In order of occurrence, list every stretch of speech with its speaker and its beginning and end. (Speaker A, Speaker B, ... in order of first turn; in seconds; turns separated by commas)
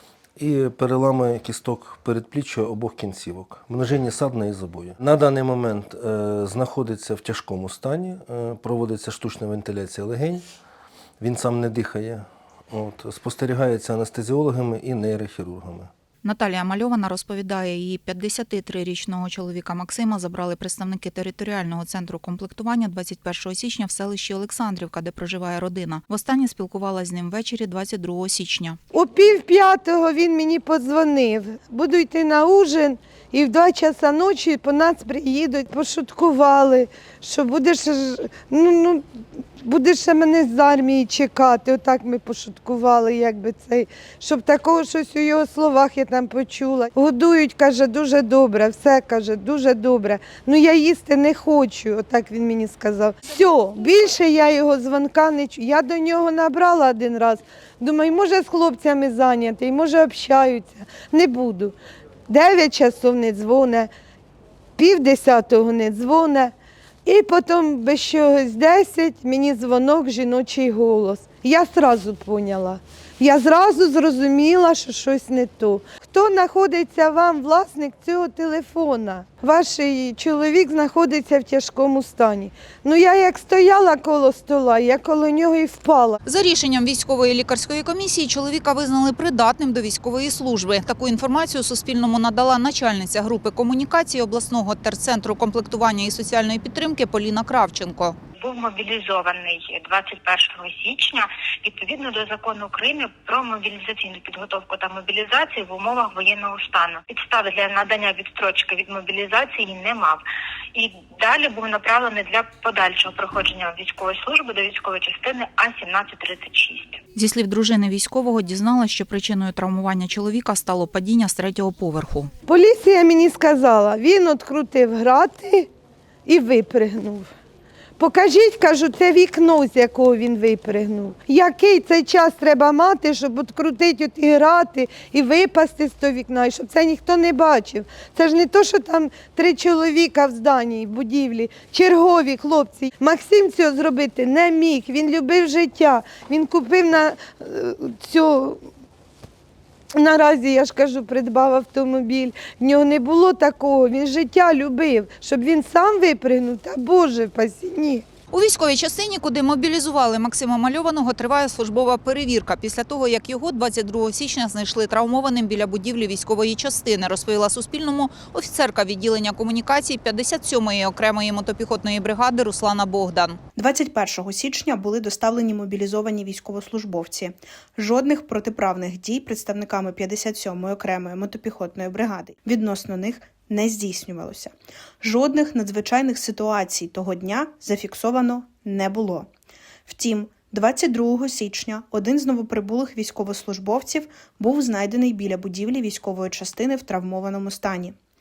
Speaker A: 0.4-10.4, Speaker A: 11.2-15.9, Speaker B: 16.2-28.8, Speaker C: 28.9-39.1, Speaker C: 39.6-61.8, Speaker C: 62.3-63.9, Speaker C: 64.8-66.5, Speaker C: 67.0-86.2, Speaker B: 86.2-98.2, Speaker D: 98.4-110.2, Speaker D: 110.7-117.0, Speaker B: 117.1-122.3, Speaker C: 122.5-125.7, Speaker C: 126.3-127.3, Speaker C: 128.0-148.7, Speaker C: 149.9-158.1, Speaker B: 158.3-173.4, Speaker E: 173.6-189.3, Speaker E: 189.9-197.9